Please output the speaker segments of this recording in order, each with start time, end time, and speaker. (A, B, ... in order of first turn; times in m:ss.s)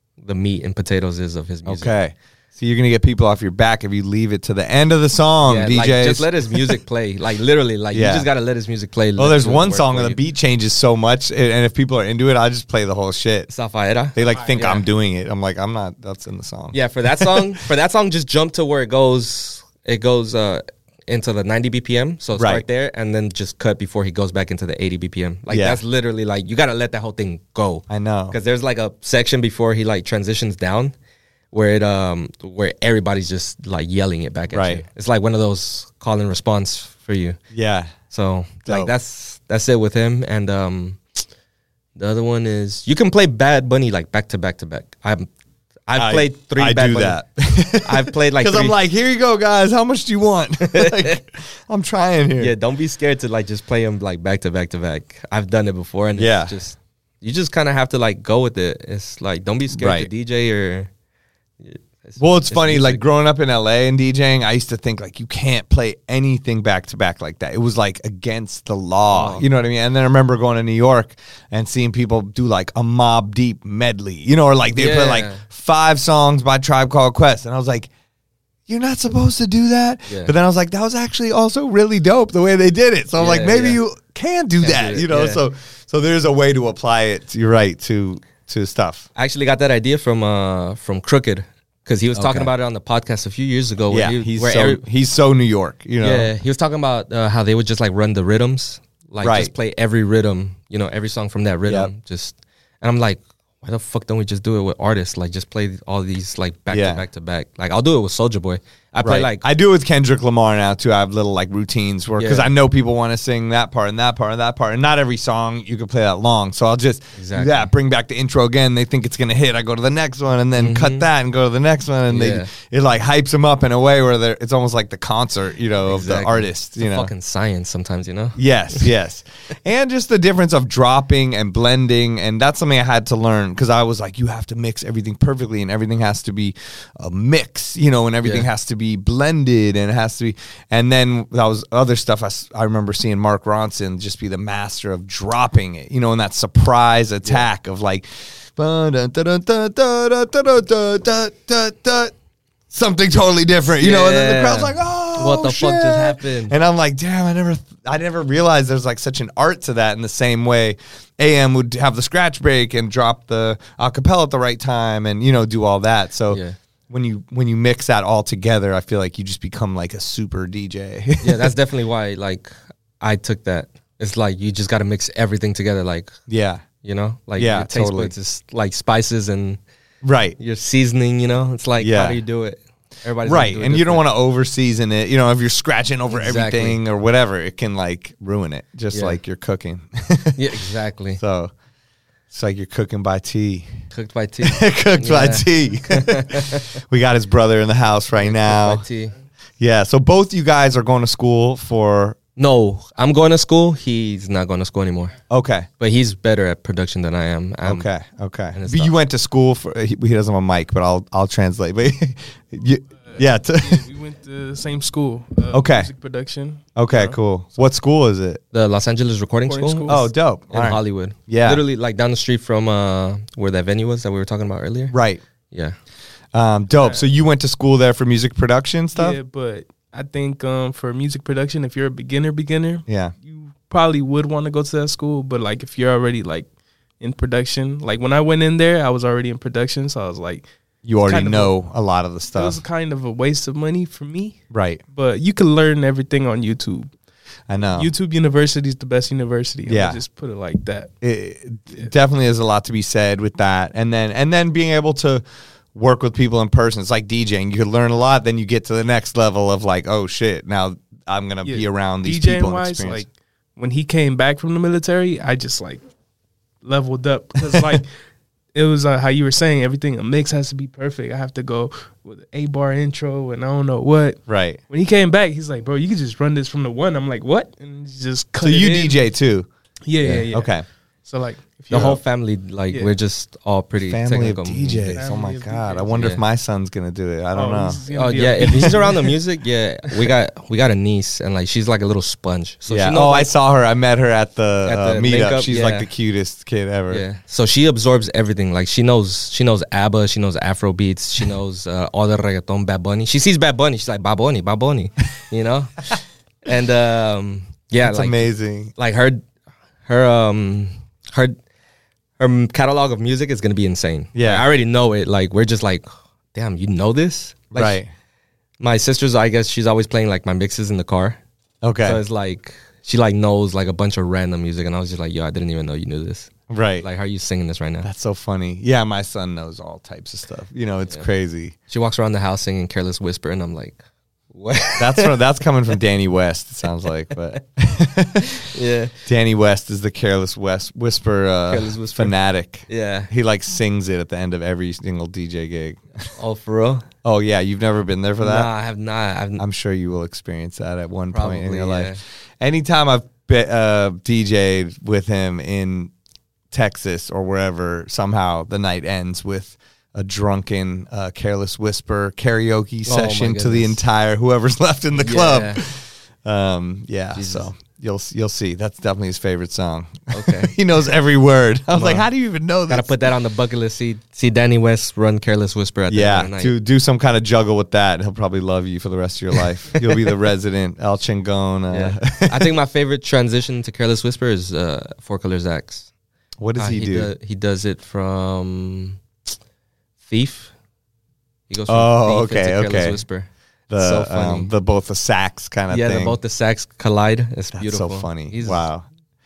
0:00.2-0:01.9 A
0:01.6-0:06.8 B
0:05.5-0:10.2 A
0:07.9-0:08.3 B
0:09.2-0:13.5 B
0:13.5-0:14.9 A
0:14.2-0:17.6 B
0:16.7-0:31.0 A
0:22.4-0:22.6 B
0:25.5-0:25.8 B
0:27.9-0:28.4 B
0:31.5-0:37.4 A
0:34.5-0:34.8 B
0:37.5-0:37.9 B
0:38.1-0:41.0 A
0:38.7-0:38.9 B
0:42.0-0:45.3 A
0:45.9-0:47.2 A
0:46.0-0:52.5 B
0:47.8-0:48.8 A
0:50.7-0:51.2 A
0:52.4-1:00.9 A
0:56.2-0:56.5 B
0:59.8-1:00.1 B
1:01.6-1:03.0 A
1:02.2-1:17.9 B
1:09.1-1:09.5 A
1:14.8-1:15.4 A
1:18.7-1:29.1 B
1:20.1-1:20.3 A
1:23.2-1:23.8 A
1:24.6-1:25.4 A
1:29.2-1:34.8 A
1:32.2-1:32.5 B
1:33.9-1:36.3 B
1:36.0-1:49.4 A
1:39.2-1:39.5 B
1:41.7-1:41.9 B
1:46.7-1:47.0 B
1:49.0-2:07.1 B
1:52.2-1:52.5 A
1:57.2-1:57.7 A
2:00.6-2:01.1 A
2:02.1-2:02.5 A
2:05.9-2:08.9 A
2:08.4-2:32.1 B
2:32.7-2:51.5 B
2:33.8-2:36.6 A
2:46.3-2:46.6 A
2:51.2-2:56.2 A
2:56.3-2:56.6 B
2:56.8-2:59.6 A
2:57.4-2:58.1 B
3:00.0-3:00.4 B
3:00.4-3:04.0 A
3:01.8-3:02.2 B
3:03.2-3:10.5 B
3:06.1-3:06.8 A
3:08.9-3:09.2 A
3:10.4-3:11.2 A
3:11.2-3:11.5 B
3:12.3-3:13.7 B
3:13.9-3:16.7 A
3:14.4-3:18.8 B
3:18.2-3:19.2 A
3:19.6-3:22.2 B
3:22.4-3:25.2 A
3:25.3-3:25.7 B
3:25.8-3:27.9 A
3:27.6-3:33.8 B
3:28.5-3:28.9 A
3:33.1-3:37.2 C
3:35.5-3:35.9 B
3:36.8-3:38.4 B
3:38.5-3:40.0 A
3:39.4-3:40.1 C
3:39.9-3:41.6 B
3:40.5-3:45.0 A
3:44.9-3:45.2 B
3:45.5-3:45.8 A
3:46.3-3:49.2 B
3:46.8-3:47.0 C
3:49.0-4:00.5 C
3:52.9-3:53.1 B
4:00.8-4:02.6 B
4:01.0-4:01.6 C
4:02.3-4:06.9 C
4:04.5-4:04.8 B
4:07.5-4:07.9 B
4:07.8-4:10.9 C
4:09.7-4:10.0 B
4:11.0-4:15.2 B
4:15.8-4:23.0 B
4:21.4-4:25.8 C
4:26.6-4:27.9 C
4:28.5-4:39.0 C
4:34.3-4:34.6 B
4:38.4-4:39.5 B
4:39.9-4:42.0 C
4:40.0-4:40.3 A
4:40.3-4:40.6 B
4:41.7-4:45.0 A
4:43.8-4:47.8 B
4:45.0-4:45.9 C
4:45.9-4:46.2 A
4:47.3-4:49.2 C
4:47.9-4:53.4 A
4:52.7-4:57.0 B
4:54.6-4:55.9 A
4:56.9-5:05.9 A
5:06.4-5:09.2 A
5:07.8-5:08.7 B
5:09.8-5:11.4 A
5:12.2-5:17.8 A
5:14.2-5:14.4 B
5:17.5-5:17.9 B
5:18.6-5:21.2 A
5:21.6-5:22.0 B
5:21.8-5:27.9 A
5:26.5-5:26.9 B
5:27.8-5:31.6 B
5:31.7-5:33.8 A
5:34.3-5:35.2 A
5:34.8-5:38.5 B
5:38.4-5:39.0 A
5:39.1-5:46.1 B
5:41.5-5:42.2 A
5:42.7-5:43.1 A
5:46.2-5:46.9 A
5:47.0-5:48.5 B
5:48.2-5:49.4 A
5:49.4-5:55.9 B
5:51.1-5:52.0 A
5:56.5-6:12.9 B
6:02.9-6:03.8 A
6:05.0-6:05.6 A
6:07.2-6:07.5 A
6:10.1-6:10.6 A
6:11.7-6:12.1 A
6:12.7-6:16.5 A
6:15.9-6:22.5 B
6:21.7-6:25.9 A
6:26.4-6:27.1 B
6:26.6-6:29.0 A
6:30.0-6:30.5 A
6:31.5-6:34.5 A
6:31.7-6:33.0 B
6:33.7-6:36.2 B
6:35.7-6:38.7 A
6:37.5-6:38.9 B